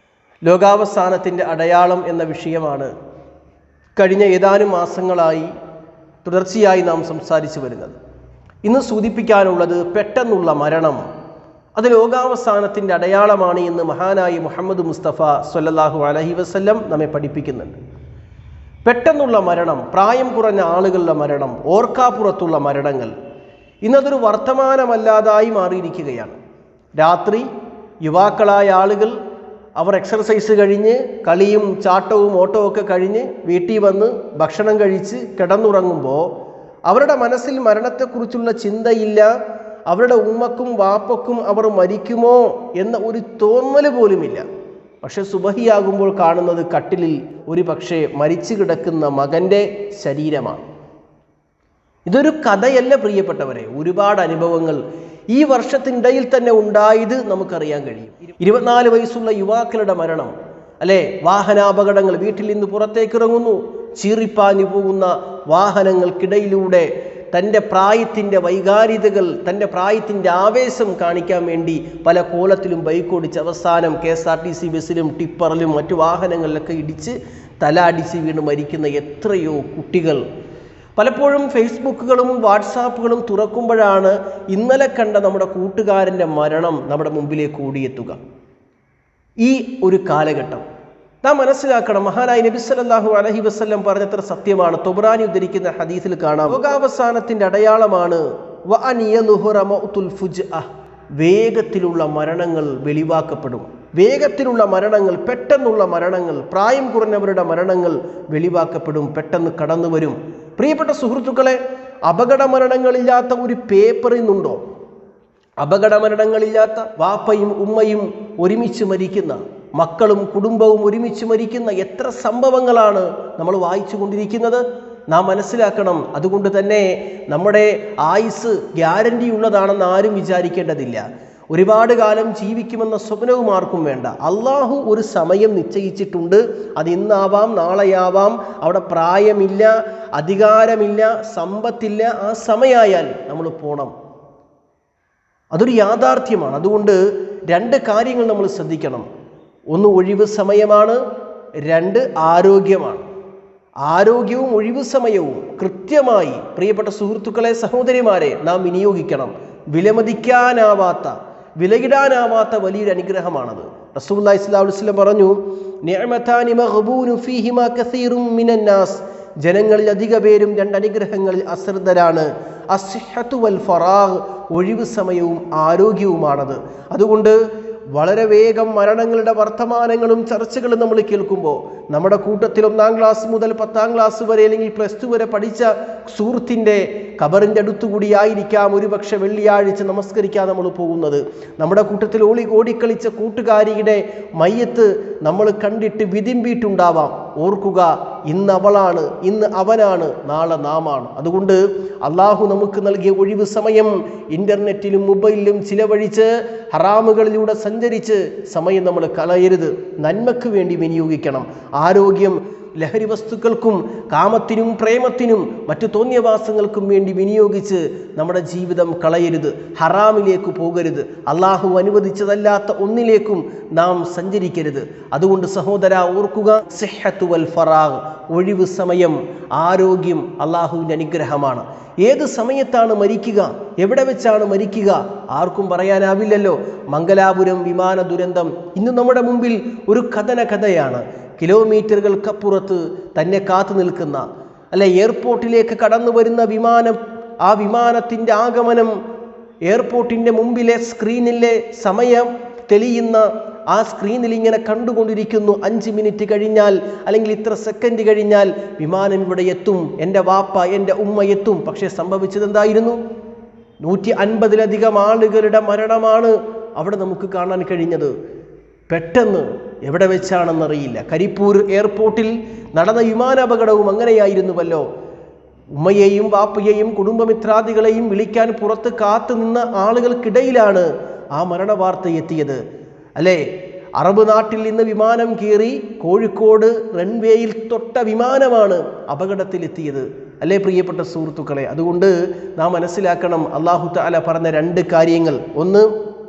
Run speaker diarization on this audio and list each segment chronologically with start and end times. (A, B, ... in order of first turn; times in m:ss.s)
0:00.4-0:02.9 A
0:04.0-0:05.5 A
0:06.2-0:08.0 A
0:08.6-0:11.0 A
0:11.8-0:17.8 A
0:18.8-0:23.1 A
0:23.8-0:26.4 A
0:27.0-0:27.5 A
0:28.0-0:29.2 A
0:29.8-0:36.3 A
0:36.9-0:39.3 A
0:39.9-0:44.5 A
0:45.0-0:50.6 A
0:52.1-0:54.8 A
0:55.3-1:20.2 A
1:21.0-1:28.2 A
1:29.4-1:30.6 A
1:31.2-1:40.7 A
1:41.2-1:54.6 A
1:55.6-2:23.9 A
2:25.5-2:29.1 A
2:29.7-2:31.0 A
2:31.7-2:33.0 A
2:33.9-2:57.4 A
2:57.9-4:08.9 A
4:09.7-4:23.0 A
4:23.8-4:28.1 A
4:28.9-4:34.8 A
4:35.8-4:42.6 A
4:43.2-4:43.4 A
4:44.0-4:55.9 A